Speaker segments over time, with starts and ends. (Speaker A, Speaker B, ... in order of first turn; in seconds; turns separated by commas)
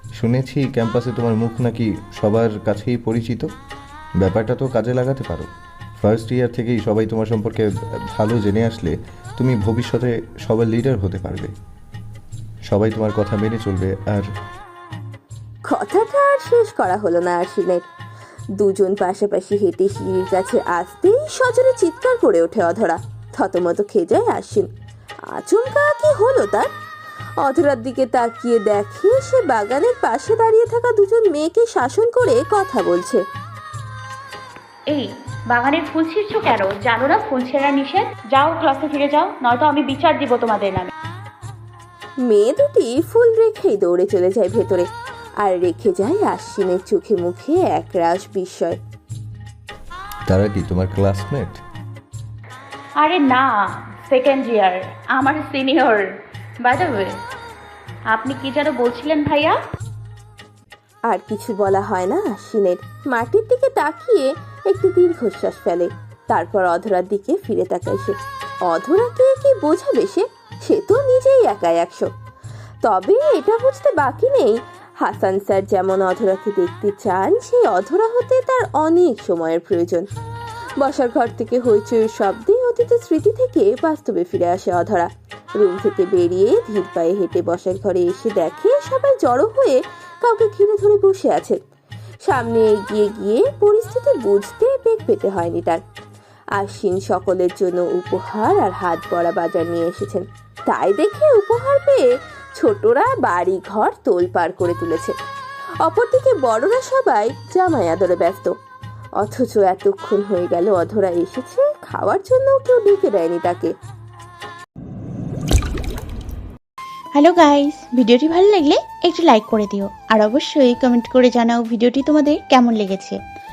Speaker A: 0.1-3.5, Speaker A: 4.2-11.5, Speaker A: 12.7-14.3, Speaker B: 15.7-17.8, Speaker B: 18.6-24.7, Speaker B: 25.3-26.7, Speaker B: 27.4-33.2, Speaker C: 34.9-40.9, Speaker B: 42.2-44.9, Speaker B: 45.4-48.8, Speaker A: 50.3-51.6, Speaker C: 53.0-56.0, Speaker C: 56.6-57.1, Speaker C: 58.1-59.5, Speaker B: 61.1-68.2, Speaker B: 68.7-72.1, Speaker B: 72.8-80.0, Speaker B: 80.8-85.1, Speaker B: 85.6-91.6, Speaker B: 92.2-95.8, Speaker B: 96.6-102.0, Speaker B: 102.6-105.1, Speaker B: 105.8-108.5, Speaker B: 109.2-113.7, Speaker D: 117.1-123.2